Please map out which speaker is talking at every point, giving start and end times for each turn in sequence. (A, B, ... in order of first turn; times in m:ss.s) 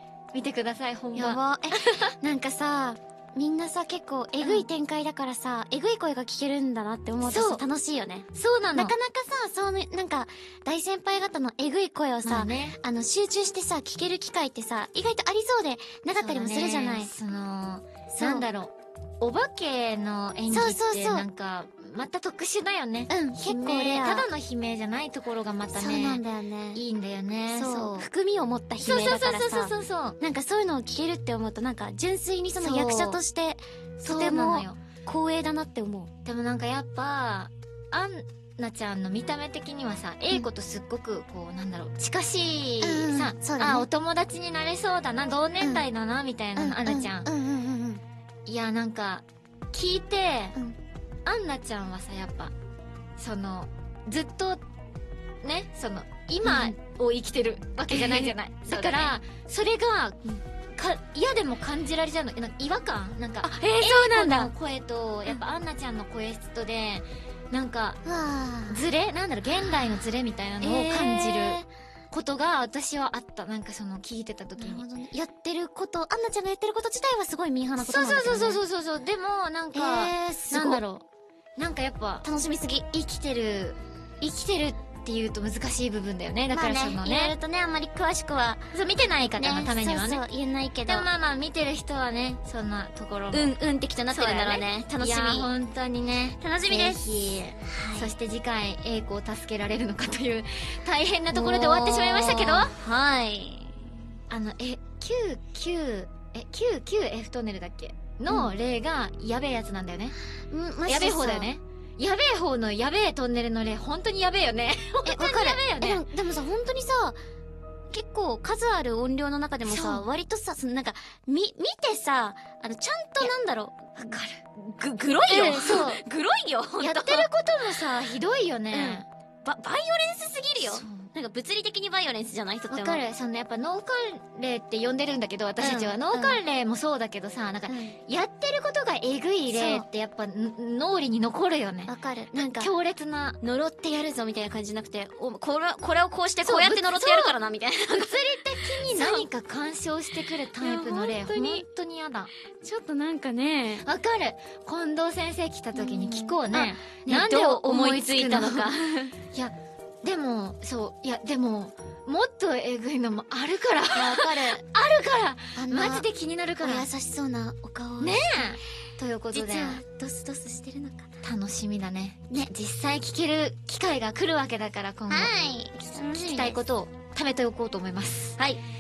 0:00.3-0:02.1 A
0:01.1-0:17.1 B
0:04.4-0:04.7 A
0:07.2-0:07.6 A
0:08.3-0:09.0 A
0:12.2-0:12.8 A
0:16.1-0:26.2 A
0:18.1-0:18.4 B
0:20.5-0:21.2 B
0:23.1-0:24.3 B
0:25.7-0:26.8 B
0:26.8-0:28.1 A
0:27.5-0:36.1 B
0:28.8-0:30.2 A
0:32.6-0:33.2 A
0:34.0-0:34.8 A
0:36.2-0:47.3 A
0:42.8-0:43.9 B
0:45.6-0:45.8 B
0:46.6-0:48.0 B
0:48.5-0:50.6 A
0:51.2-0:52.5 A
0:53.2-0:54.6 A
0:55.4-1:08.0 A
0:56.4-0:56.8 B
0:57.9-0:59.2 B
1:03.4-1:04.5 B
1:08.0-1:08.8 B
1:08.7-1:14.8 A
1:09.6-1:09.8 B
1:10.6-1:11.7 B
1:14.6-1:18.6 B
1:17.8-1:21.0 A
1:19.7-1:20.8 B
1:21.6-1:22.3 A
1:22.2-1:23.0 B
1:22.9-1:27.4 A
1:26.5-1:28.6 B
1:28.7-1:30.2 A
1:29.4-1:31.1 B
1:30.9-1:33.6 A
1:33.3-1:35.5 B
1:34.1-1:42.7 A
1:36.4-1:38.1 B
1:41.3-1:43.8 B
1:44.3-1:50.2 A
1:50.5-1:51.5 B
1:50.9-1:56.0 A
1:55.0-1:57.2 B
1:57.9-2:07.3 B
1:59.6-2:00.0 A
2:04.0-2:04.5 A
2:05.3-2:06.0 A
2:06.8-2:09.1 A
2:08.7-2:13.0 B
2:10.6-2:11.1 A
2:12.7-2:23.4 A
2:15.6-2:16.4 B
2:17.7-2:18.0 B
2:19.5-2:19.9 B
2:21.9-2:22.7 B
2:23.4-2:29.3 B
2:26.4-2:27.4 A
2:27.9-2:32.3 A
2:30.6-2:31.6 B
2:32.6-2:33.9 B
2:33.8-2:38.7 A
2:35.8-2:39.2 B
2:39.3-2:46.9 A
2:44.0-2:44.6 B
2:45.6-2:46.1 B
2:46.6-2:48.5 B
2:48.0-2:49.8 A
2:49.3-2:51.1 B
2:51.2-2:55.3 A
2:55.1-2:56.6 B
2:55.9-2:58.4 A